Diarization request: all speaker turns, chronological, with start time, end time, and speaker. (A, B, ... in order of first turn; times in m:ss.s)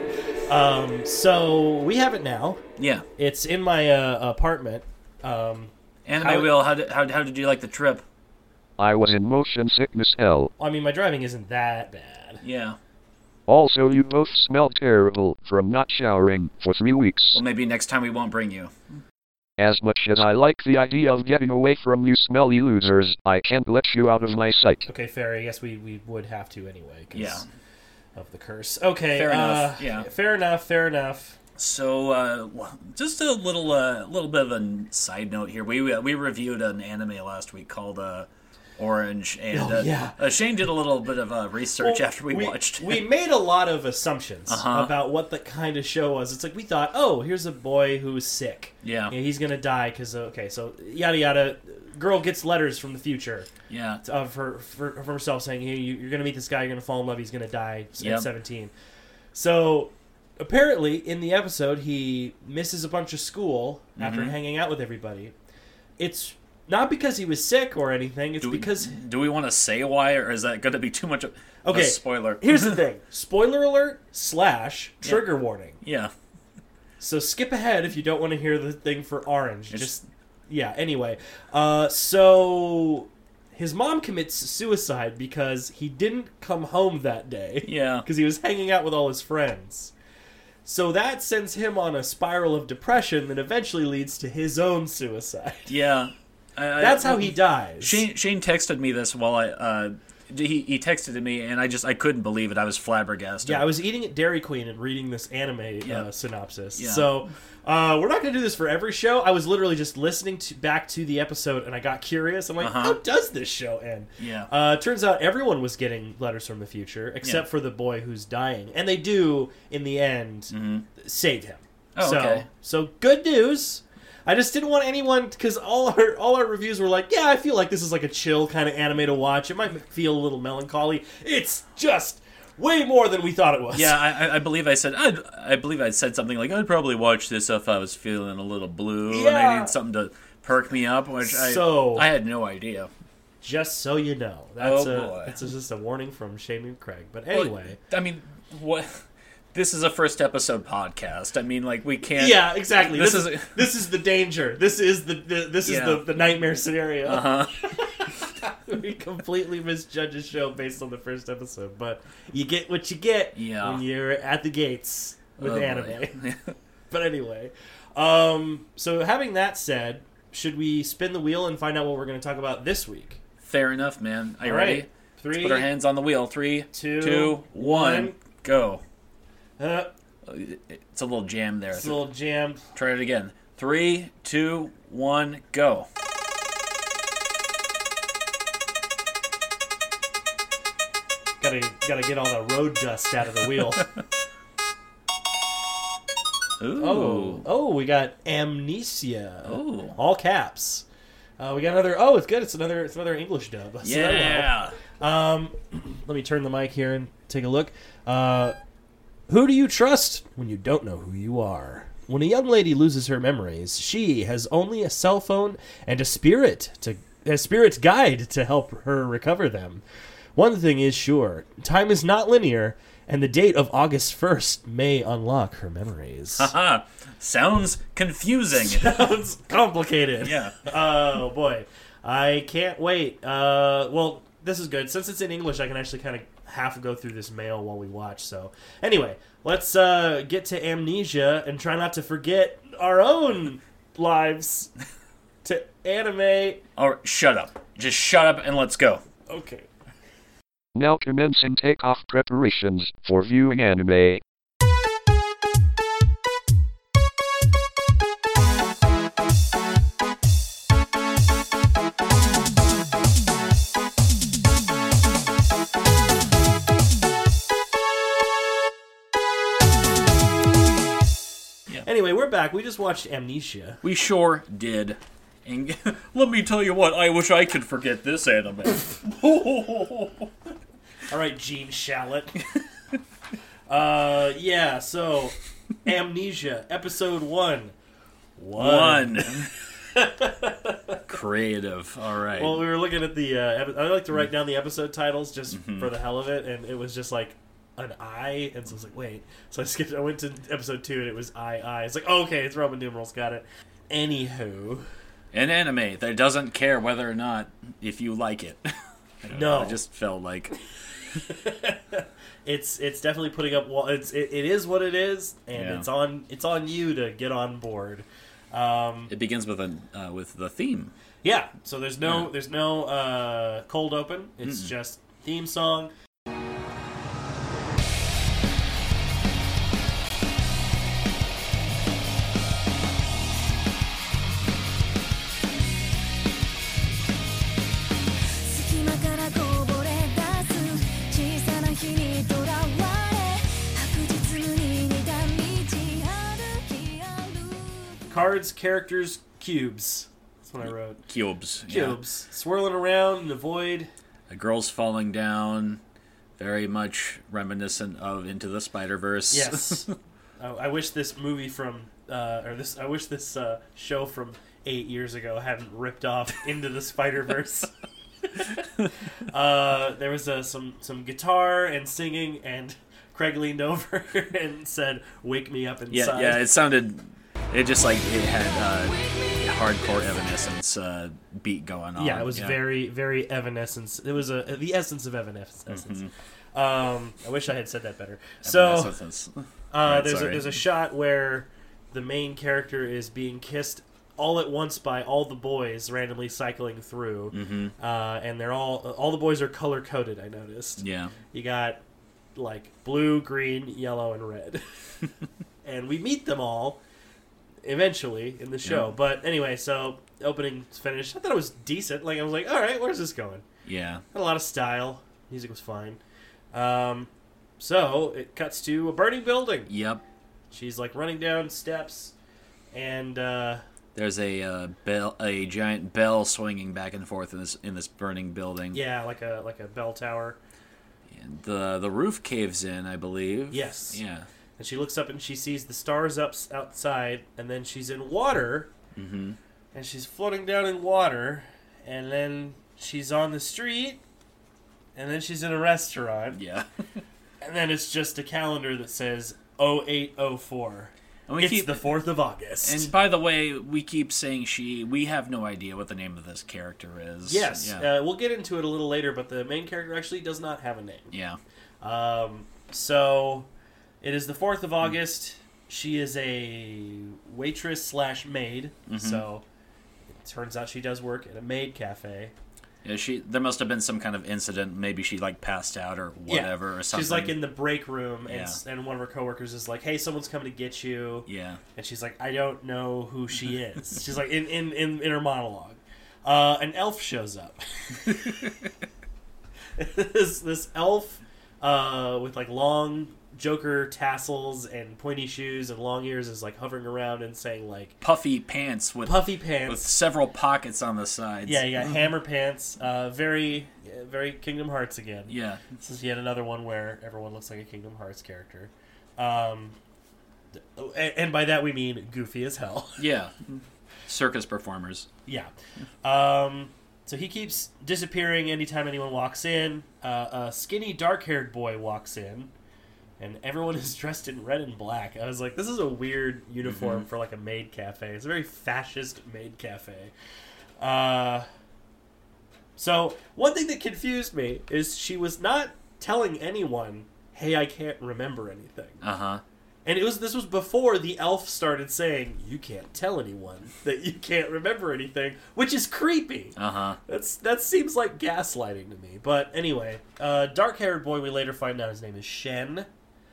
0:00.5-0:02.6 A
0:02.8-0:03.0 B
0:03.2-0:06.5 A
0:06.0-0:08.0 B
0:08.8-0:10.5 C
0:10.6-0:12.4 A
0:12.4-0:12.8 B
0:13.5-0:17.4 C
0:17.3-0:18.7 B
0:19.6-0:24.9 C
0:24.9-0:27.4 A
0:27.1-0:27.4 B
0:28.2-0:31.4 A
0:29.1-0:30.1 B
0:31.6-0:43.0 B
0:39.5-0:40.2 A
0:41.8-0:53.5 A
0:44.5-0:44.9 B
0:48.8-0:49.1 B
0:53.7-0:54.0 B
0:54.0-0:58.7 A
0:58.0-0:58.3 B
0:59.3-1:05.3 A
1:04.0-1:04.4 B
1:06.0-1:08.9 A
1:08.4-1:12.8 B
1:11.6-1:15.8 A
1:15.8-1:16.1 B
1:17.0-1:29.9 A
1:19.7-1:20.0 B
1:27.6-1:28.1 B
1:30.6-1:35.7 A
1:35.7-1:43.7 B
1:36.8-1:38.0 A
1:43.4-2:14.0 A
1:46.8-1:47.1 B
1:52.6-1:53.0 B
1:54.2-1:54.5 B
2:00.5-2:00.8 B
2:02.0-2:02.5 B
2:13.7-2:22.9 B
2:19.1-2:19.7 A
2:21.2-2:22.1 A
2:23.4-2:27.8 A
2:24.6-2:25.4 B
2:27.3-2:29.0 B
2:29.5-2:33.6 B
2:32.2-2:46.2 A
2:35.6-2:36.0 B
2:37.1-2:38.1 B
2:43.3-2:43.8 B
2:45.4-2:46.5 B
2:46.9-2:53.2 A
2:53.4-2:58.8 B
2:54.4-2:55.7 A
2:56.7-2:58.2 A
2:59.6-2:59.9 A
3:00.2-3:02.0 B
3:01.7-3:02.6 A
3:02.7-3:05.9 B
3:11.4-3:13.9 A
3:16.6-3:17.4 B
3:16.8-3:20.8 A
3:19.4-3:20.0 B
3:21.4-3:28.6 A
3:23.8-3:24.8 B
3:29.3-3:39.8 A
3:40.3-3:46.5 A
3:46.4-3:49.0 B
3:48.5-4:04.7 A
3:50.2-3:50.6 B
4:05.4-4:06.6 A
4:06.8-4:09.0 B
4:09.3-4:09.7 A
4:10.8-4:14.2 C
4:31.8-4:33.8 A
4:33.8-4:40.3 B
4:41.1-4:42.4 A
4:43.7-4:47.7 A
4:48.4-4:51.0 A
4:48.6-4:49.5 B
4:51.1-4:52.6 B
4:52.4-5:04.9 A
4:55.5-4:55.9 B
5:05.3-5:08.7 B
5:09.2-5:10.6 B
5:09.3-5:09.8 A
5:11.2-5:19.1 A
5:15.6-5:15.9 B
5:19.1-5:20.9 B
5:21.2-5:25.9 A
5:22.0-5:22.3 B
5:24.4-5:24.7 B
5:38.4-5:48.1 D
5:48.1-5:51.0 A
5:51.1-5:52.0 B
5:51.7-5:53.9 A
5:54.3-5:55.8 B
5:56.4-5:59.9 B
5:59.3-6:07.7 A
6:08.4-6:08.6 A
6:09.2-6:16.4 A
6:15.9-6:22.6 B
6:22.0-6:29.0 A
6:25.7-6:26.1 B
6:28.4-6:30.5 B
6:29.7-6:41.8 A
6:37.3-6:37.7 B
6:40.8-6:41.1 B
6:42.3-6:44.6 A
6:45.6-6:46.8 A
6:47.6-6:53.4 A
6:48.6-6:48.9 B
6:53.6-6:54.0 B
6:54.1-6:56.0 A
6:56.5-6:59.7 A
6:59.7-7:00.0 B
7:00.5-7:02.1 A
7:02.7-7:03.6 A
7:03.9-7:08.8 B
7:08.7-7:10.4 A
7:11.1-7:14.3 B
7:13.5-7:14.0 A
7:14.6-7:18.7 A
7:18.9-7:19.4 B
7:19.7-7:24.0 A
7:24.9-7:26.4 A
7:26.3-7:26.7 B
7:27.4-7:32.9 A
7:31.3-7:32.0 B
7:32.6-7:37.8 B
7:37.2-7:41.1 A
7:41.1-7:41.4 B
7:41.8-7:43.5 A
7:44.0-7:49.4 A
7:48.9-7:49.2 B
7:50.2-7:52.3 A
7:52.8-7:57.4 B
7:56.3-8:08.3 A
7:58.3-7:58.6 B
8:01.3-8:01.6 B
8:09.8-8:18.0 A
8:18.0-8:22.0 B
8:19.0-8:19.8 A
8:21.4-8:29.8 A
8:25.3-8:25.8 B
8:30.6-8:33.1 A
8:33.0-8:35.1 B
8:35.3-8:35.5 A
8:36.0-8:42.5 A
8:43.2-8:50.1 A
8:46.6-8:47.1 B
8:50.8-8:51.5 A
8:52.8-8:59.0 A
8:59.0-8:59.4 B
8:59.8-9:12.9 A
9:06.6-9:07.0 B